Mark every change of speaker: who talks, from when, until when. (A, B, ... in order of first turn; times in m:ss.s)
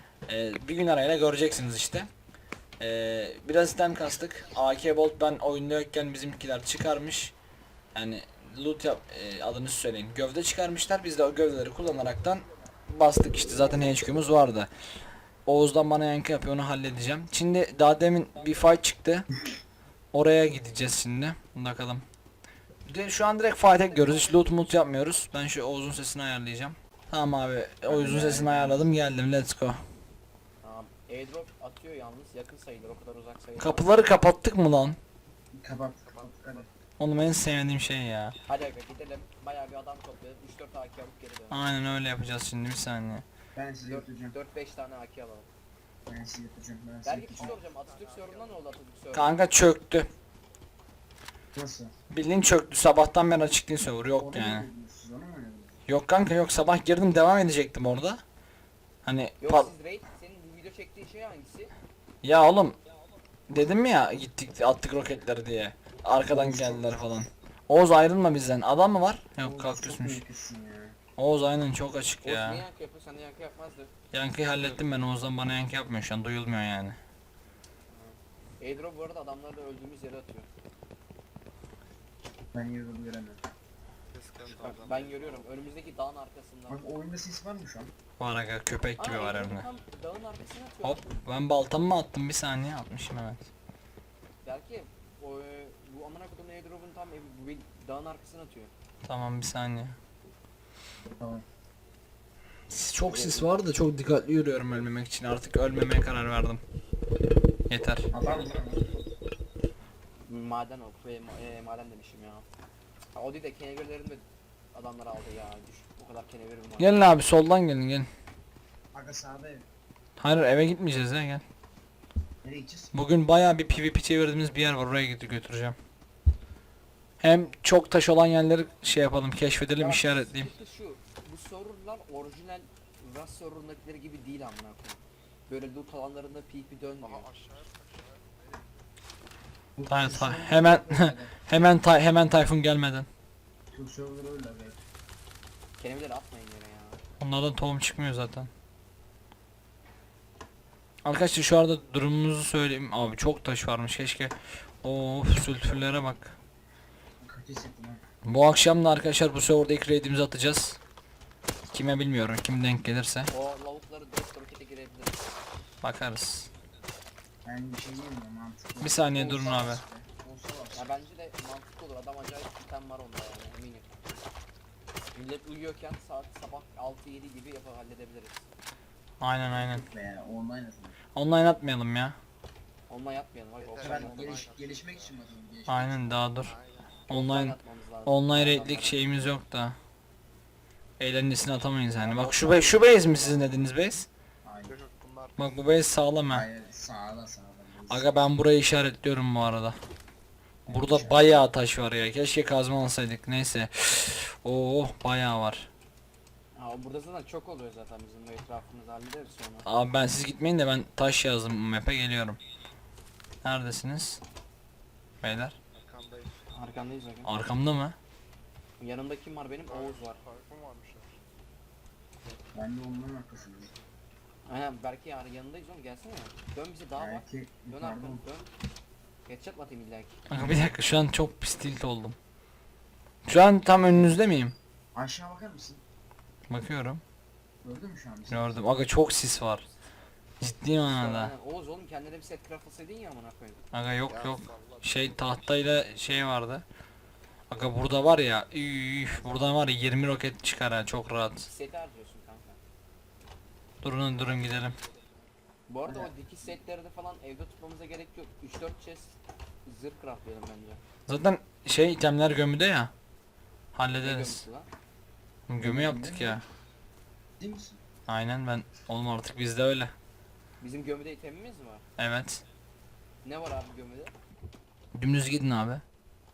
0:00.3-0:02.1 A
0:02.8-0:07.3 A
0:07.9-0:14.7 A
0:15.4-0:19.3 A
0:20.1-0:22.0 A
0:22.9-0:29.8 A
0:23.8-0:24.6 B
0:27.9-0:28.9 C
0:30.6-0:33.9 B
0:33.6-0:35.0 A
0:35.5-0:36.7 C
0:36.0-0:36.7 D
0:37.0-0:38.4 A
0:38.4-0:41.6 B
0:41.5-0:43.2 A
0:43.5-0:44.4 C
0:43.8-0:45.5 B
0:46.1-0:47.6 C
0:47.0-0:49.4 B
0:47.4-0:48.8 D
0:49.1-0:50.1 A
0:51.5-0:51.9 C
0:52.1-0:54.7 A
0:54.2-0:55.7 C
0:55.9-0:58.2 A
0:59.0-0:59.7 A
0:59.4-1:01.7 B
1:02.2-1:02.8 A
1:03.5-1:10.2 A
1:06.3-1:07.1 C
1:09.4-1:11.0 C
1:11.2-1:12.6 A
1:12.2-1:13.9 B
1:14.1-1:17.0 A
1:18.6-1:20.5 B
1:22.5-1:23.4 C
1:24.1-1:25.6 D
1:24.5-1:26.9 B
1:26.7-1:27.9 C
1:28.2-1:29.7 A
1:29.0-1:31.2 B
1:30.8-1:33.5 A
1:34.4-1:38.7 B
1:39.0-1:40.0 A
1:41.2-1:41.4 C
1:42.7-1:46.6 A
1:43.1-1:43.5 B
1:47.7-1:48.1 A
1:48.1-1:48.9 C
1:50.2-1:52.4 B
1:53.1-1:57.1 B
1:56.8-1:58.1 A
1:58.9-1:59.7 C
2:00.2-2:01.4 A
2:02.4-2:03.0 C
2:02.9-2:05.8 A
2:07.2-2:10.5 A
2:09.8-2:17.3 B
2:17.0-2:18.9 D
2:19.8-2:21.4 C
2:19.9-2:23.1 A
2:23.7-2:24.8 C
2:25.8-2:27.0 B
2:27.2-2:28.5 A
2:31.0-2:36.4 A
2:37.2-2:38.0 C
2:38.2-2:40.8 A
2:41.7-2:43.3 A
2:43.3-2:45.3 B
2:45.8-2:46.5 A
2:47.4-2:51.0 C
2:48.8-2:49.8 A
2:50.7-2:54.0 B
2:55.1-2:58.5 B
2:59.2-2:59.8 A
2:59.5-3:01.0 C
3:01.1-3:02.2 A
3:02.9-3:04.4 B
3:03.6-3:05.4 D
3:03.8-3:06.2 C
3:05.7-3:06.5 A
3:06.3-3:07.0 D
3:07.1-3:09.8 A
3:07.1-3:09.1 B
3:08.4-3:09.0 C
3:11.0-3:14.1 A
3:12.0-3:13.6 B
3:14.4-3:14.8 C
3:14.6-3:16.5 D
3:15.4-3:16.5 A
3:16.3-3:18.3 C
3:17.9-3:19.8 A
3:20.7-3:21.4 C
3:20.7-3:25.7 A
3:26.5-3:29.7 B
3:29.6-3:32.4 A
3:33.4-3:34.2 A
3:35.2-3:35.6 A
3:35.7-3:36.4 D
3:36.5-3:37.3 B
3:37.2-3:38.0 A
3:38.8-3:40.2 B
3:39.7-3:41.2 D
3:42.5-3:43.7 C
3:43.4-3:43.7 D
3:44.4-3:48.5 B
3:47.0-3:48.2 C
3:49.2-3:50.2 B
3:50.3-3:52.2 A
3:53.2-3:54.6 A
3:54.9-3:55.8 C
3:56.5-3:57.0 A
3:57.6-3:58.7 C
3:58.3-3:59.6 A
4:00.4-4:01.3 A
4:00.8-4:03.6 B
4:03.7-4:06.6 A
4:04.1-4:05.9 D
4:07.5-4:11.5 A
4:09.1-4:09.7 B
4:11.4-4:12.6 B
4:13.8-4:14.8 A
4:14.2-4:15.0 D
4:15.7-4:20.8 B
4:15.8-4:16.1 C
4:21.1-4:22.9 A
4:23.7-4:24.4 A
4:24.0-4:24.7 B
4:25.5-4:26.4 A
4:25.6-4:26.4 C
4:27.4-4:27.8 C
4:28.1-4:29.9 A
4:30.6-4:31.8 B
4:32.0-4:32.4 A
4:33.2-4:34.1 B
4:34.9-4:35.8 A